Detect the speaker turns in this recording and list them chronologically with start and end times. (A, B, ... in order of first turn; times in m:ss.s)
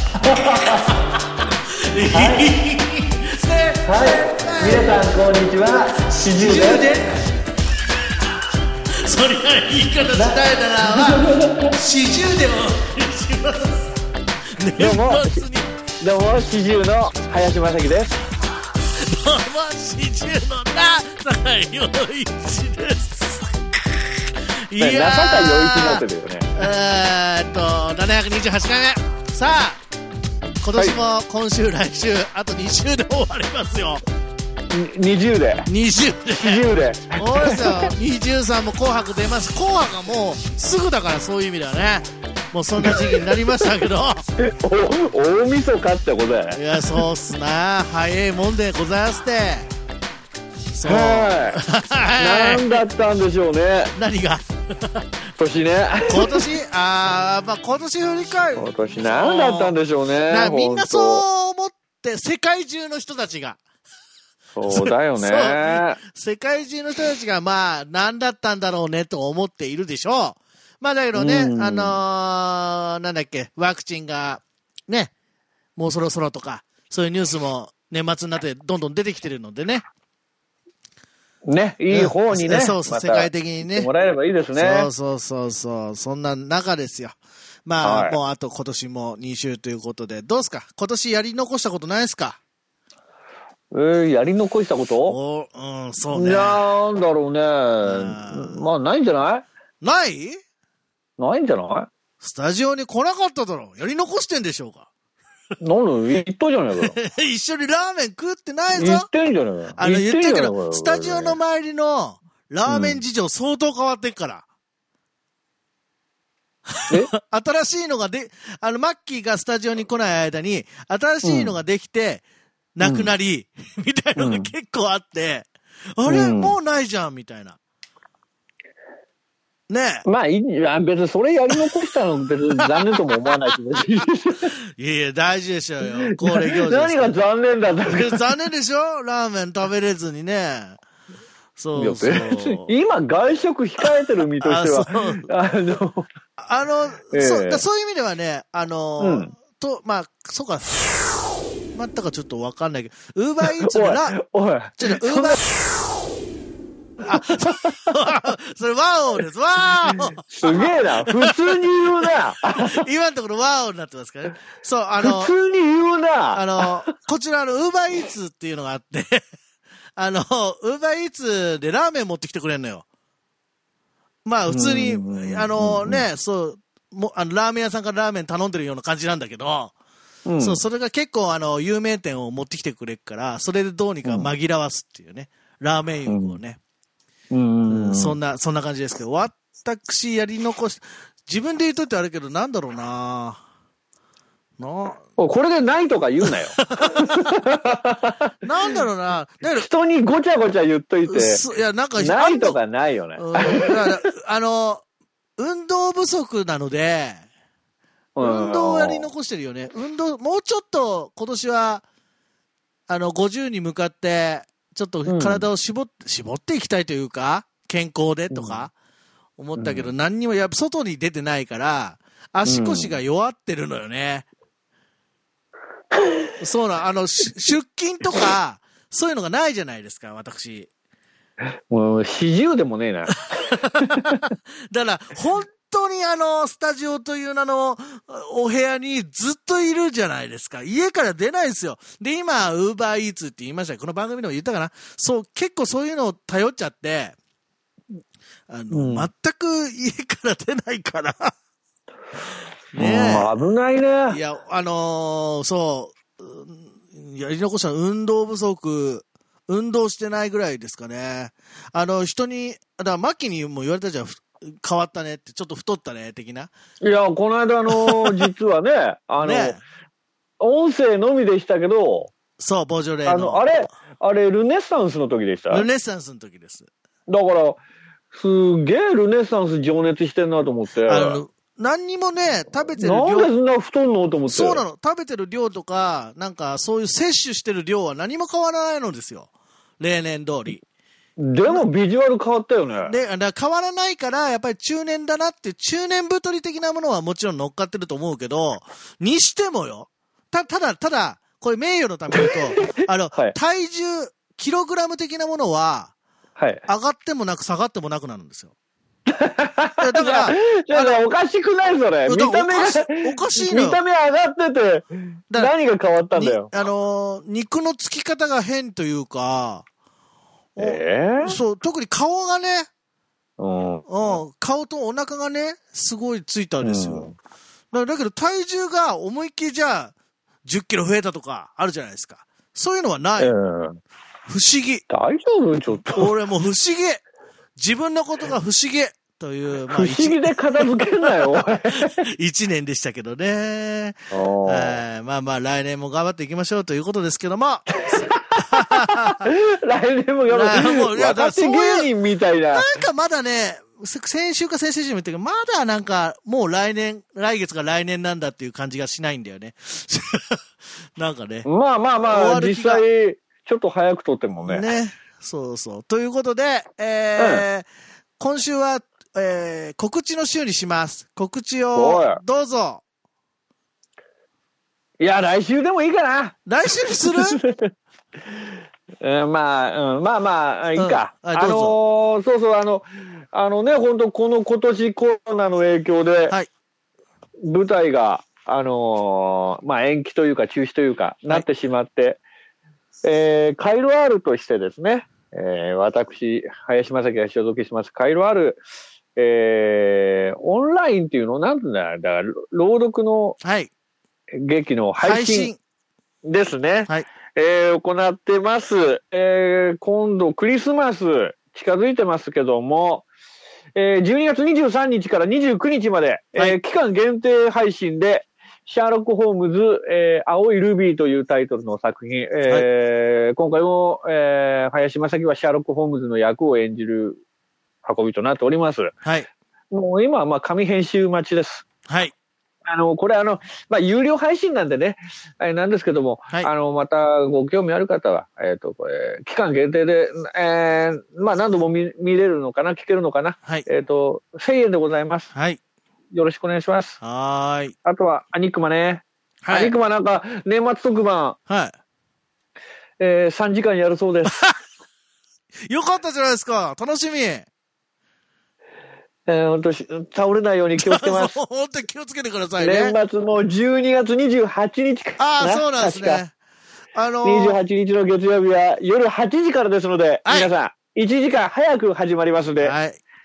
0:00.2-0:00.9 A
0:00.3-0:00.9 B
0:01.9-0:05.0 B
0:02.1-0:02.5 A
0:03.8-0:06.9 A
0:06.1-0:07.2 B
0:09.0-0:13.9 B
0:10.1-0:11.7 A
0:14.6-0:15.7 B
0:14.8-0:15.4 A
0:16.0-0:18.1 A
0:18.9-0:23.5 B
0:24.7-0:26.0 B
0:24.8-0:26.5 A
0:26.5-0:29.8 B
0:30.6-0:34.0 B
0:34.7-0:35.7 A
0:35.6-0:36.6 B
0:36.4-0:37.9 A
0:37.2-0:44.2 B
0:42.8-0:43.3 A
0:44.4-0:47.0 A
0:46.5-0:49.7 B
0:50.7-0:52.8 B
0:50.8-0:51.6 A
0:52.2-0:53.9 A
0:53.9-0:55.0 B
0:55.4-0:56.4 A
0:56.1-0:59.7 B
0:58.5-1:01.2 A
1:00.3-1:03.6 B
1:04.5-1:06.0 A
1:04.7-1:15.1 B
1:11.1-1:12.0 A
1:15.8-1:19.8 B
1:21.5-1:24.9 A
1:21.9-1:23.9 B
1:24.5-1:32.4 B
1:27.8-1:28.2 A
1:33.7-1:35.2 A
1:35.1-1:36.6 B
1:36.1-1:39.4 A
1:37.8-1:38.6 B
1:39.8-1:40.4 B
1:41.2-1:41.9 A
1:42.2-1:44.9 B
1:45.6-1:47.0 A
1:46.8-1:49.1 B
1:48.8-1:51.4 A
1:49.7-1:54.4 B
1:52.6-1:53.0 A
1:56.8-2:02.2 B
2:01.2-2:01.6 A
2:02.8-2:07.6 B
2:02.8-2:03.1 A
2:04.2-2:04.5 A
2:06.0-2:06.6 A
2:09.7-2:10.0 B
2:10.0-2:14.5 A
2:12.8-2:13.0 B
2:14.8-2:17.2 B
2:16.0-2:18.2 A
2:17.8-2:20.8 B
2:21.6-2:22.7 B
2:21.7-2:26.1 A
2:24.4-2:25.2 B
2:26.4-2:31.0 B
2:27.1-2:27.6 A
2:29.0-2:29.3 A
2:31.7-2:34.2 B
2:33.4-2:35.4 A
2:34.8-2:35.4 B
2:37.0-2:41.3 B
2:40.2-2:42.9 A
2:42.0-2:45.3 B
2:45.0-2:46.6 A
2:46.3-2:49.2 B
2:50.0-2:52.8 B
2:54.2-2:59.7 B
2:54.5-2:56.0 A
3:00.2-3:00.6 A
3:00.4-3:06.6 B
3:04.0-3:04.3 A
3:06.1-3:06.4 A
3:07.3-3:08.2 A
3:07.7-3:13.4 B
3:14.6-3:15.0 B
3:15.2-3:18.3 A
3:16.2-3:17.2 B
3:18.4-3:19.7 B
3:19.5-3:21.4 A
3:21.1-3:22.6 B
3:22.0-3:24.0 A
3:23.2-3:24.8 B
3:25.4-3:27.2 B
3:28.2-3:29.1 A
3:28.2-3:31.8 B
3:32.9-3:38.7 B
3:35.1-3:35.5 A
3:38.3-3:38.6 A
3:39.4-3:44.3 B
3:39.6-3:39.9 A
3:42.4-3:43.0 A
3:46.4-3:50.7 B
3:51.7-3:54.2 A
3:53.3-4:07.1 B
4:08.5-4:11.3 B
4:08.7-4:09.1 A
4:12.7-4:13.3 B
4:12.7-4:14.2 A
4:14.1-4:26.5 B
4:26.8-4:29.6 A
4:27.7-4:28.3 B
4:29.2-4:29.6 B
4:30.4-4:32.1 A
4:32.4-4:33.5 B
4:33.0-4:35.6 A
4:35.5-4:36.7 B
4:37.1-4:37.6 A
4:38.1-4:41.2 A
4:40.9-4:43.3 B
4:42.8-4:44.6 A
4:44.3-4:49.3 B
4:49.8-4:50.6 B
4:51.2-4:52.9 A
4:52.8-5:05.9 B
5:06.4-5:06.6 A
5:06.6-5:08.5 B
5:09.1-5:16.5 A
5:09.8-5:11.1 B
5:12.0-5:13.8 B
5:16.1-5:19.6 B
5:20.6-5:22.7 B
5:20.6-5:21.4 A
5:23.4-5:24.2 A
5:23.9-5:27.1 B
5:26.6-5:27.1 A
5:27.7-5:29.9 B
5:30.4-5:33.3 B
5:33.2-5:33.8 A
5:34.3-5:34.8 B
5:34.9-5:36.1 A
5:35.9-5:37.0 B
5:37.6-5:49.3 B
5:39.7-5:42.0 A
5:44.1-5:44.8 A
5:47.8-5:52.7 A
5:50.3-5:51.9 B
5:52.5-6:00.4 B
6:01.0-6:01.5 B
6:01.4-6:04.7 A
6:02.0-6:02.8 B
6:04.4-6:07.6 B
6:07.2-6:07.4 A
6:08.2-6:12.8 B
6:11.7-6:12.2 A
6:15.0-6:17.7 A
6:16.4-6:17.4 B
6:19.0-6:26.3 A
6:20.8-6:21.8 B
6:27.4-6:32.2 A
6:33.0-6:38.6 A
6:39.2-6:43.4 A
6:43.4-6:43.7 B
6:44.3-6:45.5 A
6:45.0-6:45.6 B
6:46.2-6:53.0 A
6:53.8-7:07.2 A
7:07.8-7:08.9 A
7:09.0-7:09.3 B
7:09.7-7:11.6 A
7:11.9-7:12.1 B
7:12.6-7:25.3 A
7:25.3-7:25.6 B
7:26.1-7:27.0 A
7:27.0-7:27.7 B
7:27.8-7:31.4 A
7:29.4-7:29.7 B
7:31.5-7:31.7 B
7:33.0-7:34.4 A
7:35.7-7:37.5 B
7:39.3-7:41.4 A
7:40.8-7:43.0 B
7:42.6-7:46.2 A
7:45.2-7:46.3 B
7:46.9-7:47.6 B
7:47.2-7:52.7 A
7:50.2-7:50.5 B
7:52.6-7:53.0 B